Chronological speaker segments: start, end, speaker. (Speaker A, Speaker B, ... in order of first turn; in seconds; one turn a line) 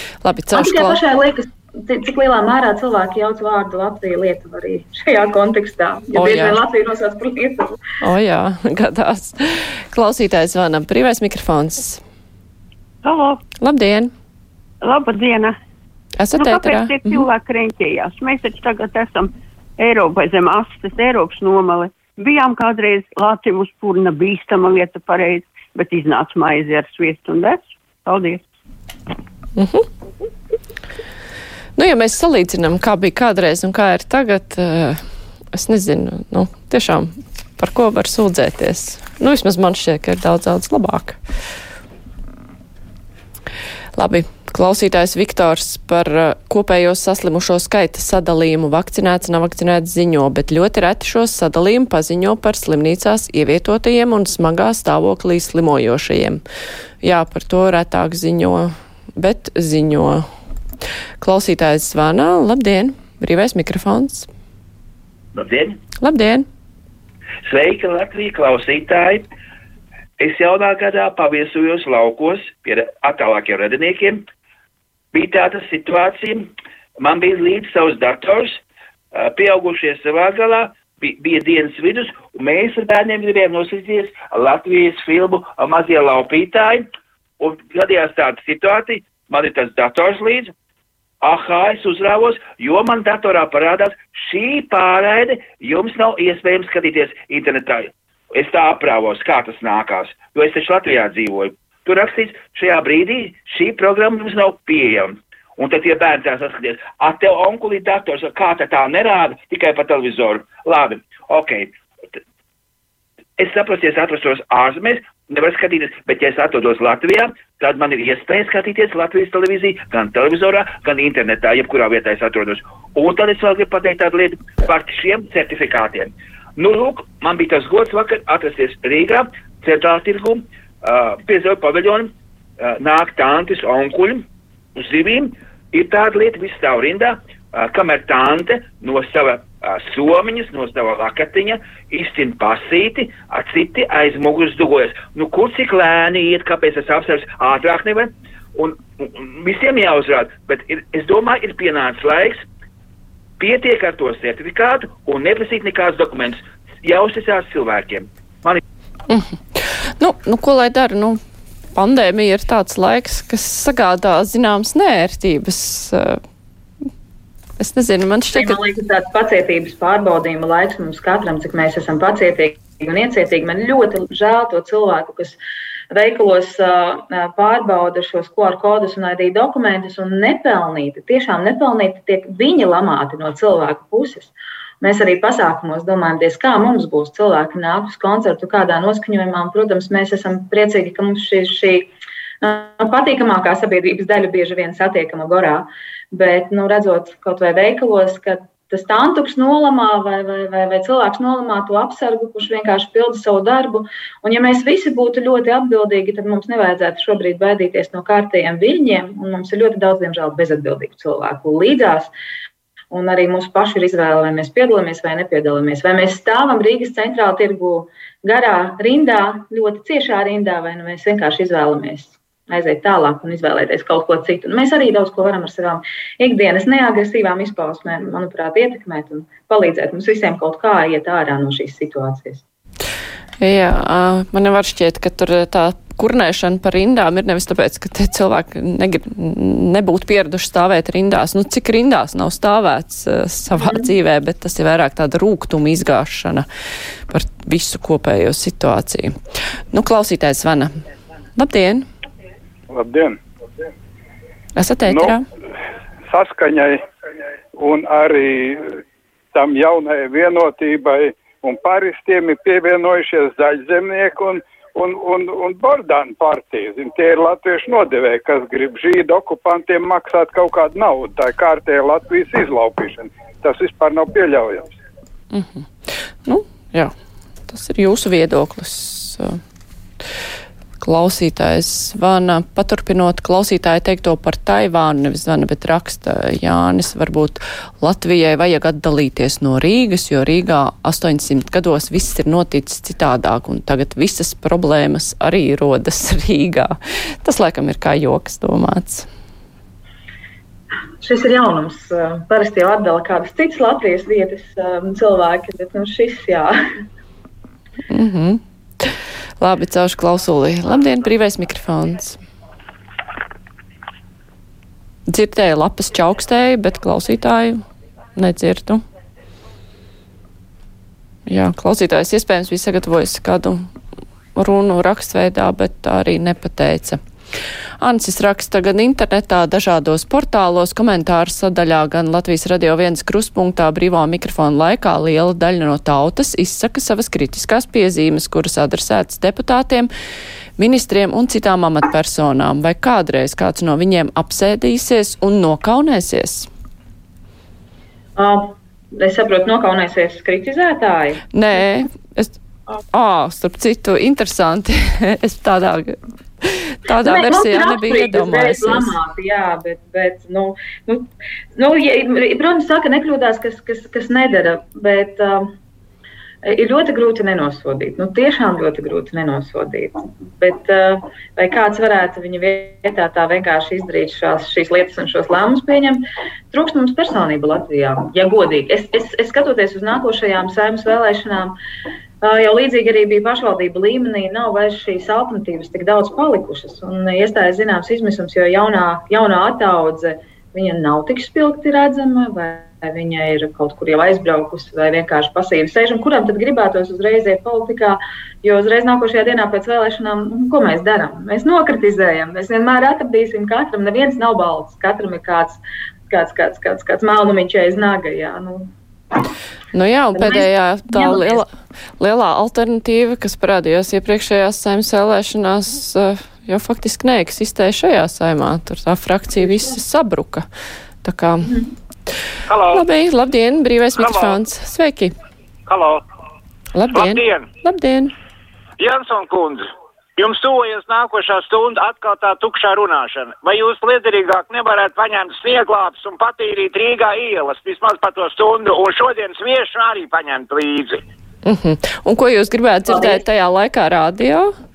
Speaker A: 0.2-1.0
Speaker B: 0.5-7.8
Speaker A: 6.1-6.6
Speaker A: 8.0-12.0
Speaker C: 13.0-13.4
Speaker A: 13.6-14.1
Speaker C: 14.8-15.5
Speaker A: 16.2-17.2
Speaker C: 16.3-28.4
Speaker A: 29.5-29.9
Speaker A: 31.8-41.2
Speaker A: 44.0-56.4
Speaker A: 57.0-60.2
Speaker A: 61.2-64.3
Speaker D: 65.3-65.8
Speaker A: 66.0-66.5
Speaker D: 67.4-69.2
Speaker D: 70.2-74.2
Speaker D: 75.1-78.6
Speaker D: 79.1-86.9
Speaker D: 87.4-90.5
Speaker D: 91.2-111.7
Speaker D: 113.4-152.4
Speaker D: 153.4-158.6
Speaker A: 159.1-161.2
Speaker A: 161.7-166.2
Speaker A: 167.6-168.6
Speaker B: 168.3-175.4
Speaker B: 175.9-212.1
Speaker B: 212.9-232.4
Speaker A: 233.4-246.4
Speaker B: 243.6-243.9
Speaker A: 247.1-249.2
Speaker A: 249.7-250.8
Speaker A: 251.3-251.9
Speaker E: 252.7-253.2
Speaker A: 254.6-255.2
Speaker E: 254.9-255.1
Speaker E: 256.1-256.8
Speaker E: 257.6-258.8
Speaker E: 259.3-274.7
Speaker A: 275.3-276.9
Speaker A: 277.5-279.4
Speaker A: 280.8-299.1
Speaker B: 301.0-306.5
Speaker A: 307.9-312.2
Speaker A: 315.1-318.8
Speaker A: 321.3-323.7
Speaker A: 324.3-327.0
Speaker A: 327.8-339.9
Speaker A: 340.6-346.5
Speaker B: 348.2-351.2
Speaker A: 351.3-352.4
Speaker A: 352.9-358.9
Speaker B: 357.0-365.5
Speaker B: 366.4-381.5
Speaker B: 382.2-408.7
Speaker A: 409.7-411.5
Speaker B: 410.1-411.4
Speaker A: 412.0-420.5
Speaker B: 419.4-419.8
Speaker A: 421.0-421.5
Speaker B: 421.4-421.7
Speaker F: 422.5-422.8
Speaker A: 422.7-425.1
Speaker F: 424.0-424.3
Speaker F: 425.7-426.0
Speaker A: 426.7-428.1
Speaker F: 426.9-427.5
Speaker F: 428.8-429.6
Speaker F: 430.2-441.0
Speaker A: 441.4-444.5
Speaker B: 442.9-443.2